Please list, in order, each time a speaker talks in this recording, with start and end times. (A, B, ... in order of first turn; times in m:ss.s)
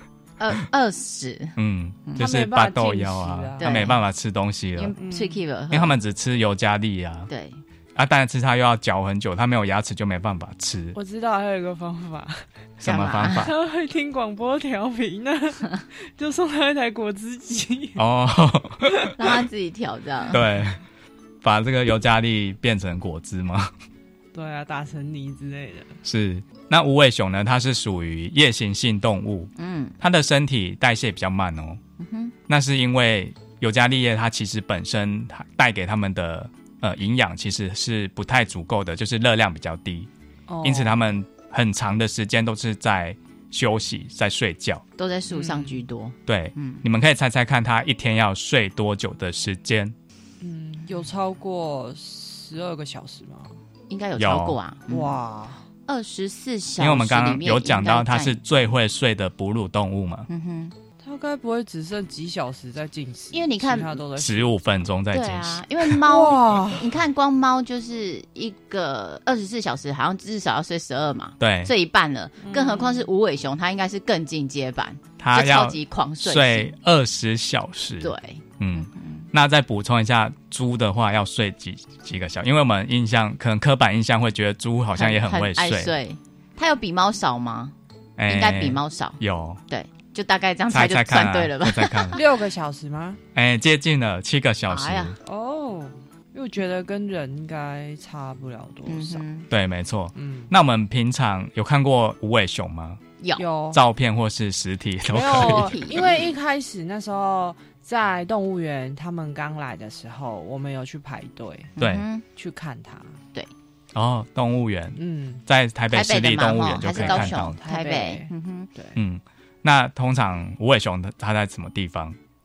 0:00.4-0:02.2 A
0:01.6-0:05.0 B
0:02.2-0:03.9 C
0:03.6-0:04.0 A
0:04.8-0:06.0 A
0:05.0-0:05.4 C
0:05.7-0:07.3 B
0:07.3-0:07.6 A
0:08.0-0:11.0 B
0:10.9-0:12.4 C
0:12.8-0:13.5 B
0:12.8-0:13.5 A
0:13.4-0:18.0 C
0:18.0-0:19.1 B
0:19.2-0:20.4 A
0:20.3-0:20.8 B
0:21.4-0:23.7 B
0:24.3-0:26.0 C
0:26.0-0:31.8 B
0:29.6-0:30.0 A
0:32.0-0:32.4 A
0:32.5-0:40.1 B
0:40.5-0:41.1 C
0:40.6-0:44.8 B
0:45.0-0:46.8 A
0:45.3-0:45.8 C
0:46.3-0:50.0 B
0:50.4-0:53.6 C
0:53.9-0:55.2 A
0:54.2-0:54.6 B
0:54.9-0:55.6 C
0:55.9-0:58.4 A
0:56.8-1:00.3 B
1:00.3-1:00.8 A
1:01.0-1:04.7 C
1:03.3-1:04.0 A
1:04.2-1:05.9 B
1:05.1-1:16.7 A
1:06.0-1:06.9 C
1:11.4-1:11.7 B
1:12.4-1:13.1 C
1:15.2-1:25.9 B
1:18.0-1:19.3 A
1:24.9-1:27.7 A
1:28.2-1:29.6 B
1:28.3-1:32.2 A
1:30.7-1:32.2 B
1:32.1-1:33.2 C
1:33.4-1:35.2 B
1:34.7-1:35.2 A
1:35.2-1:39.2 C
1:38.9-1:39.5 A
1:39.5-1:43.0 B
1:40.2-1:40.5 C
1:43.2-1:43.4 A
1:43.4-1:43.8 C
1:43.7-1:45.8 B
1:45.1-1:51.8 C
1:45.3-1:46.2 A
1:51.8-1:52.2 A
1:51.8-1:52.0 B
1:52.4-1:53.2 C
1:53.9-1:57.6 B
1:55.0-1:55.4 C
1:55.9-1:58.7 A
1:56.9-1:59.0 C
1:59.0-2:02.2 B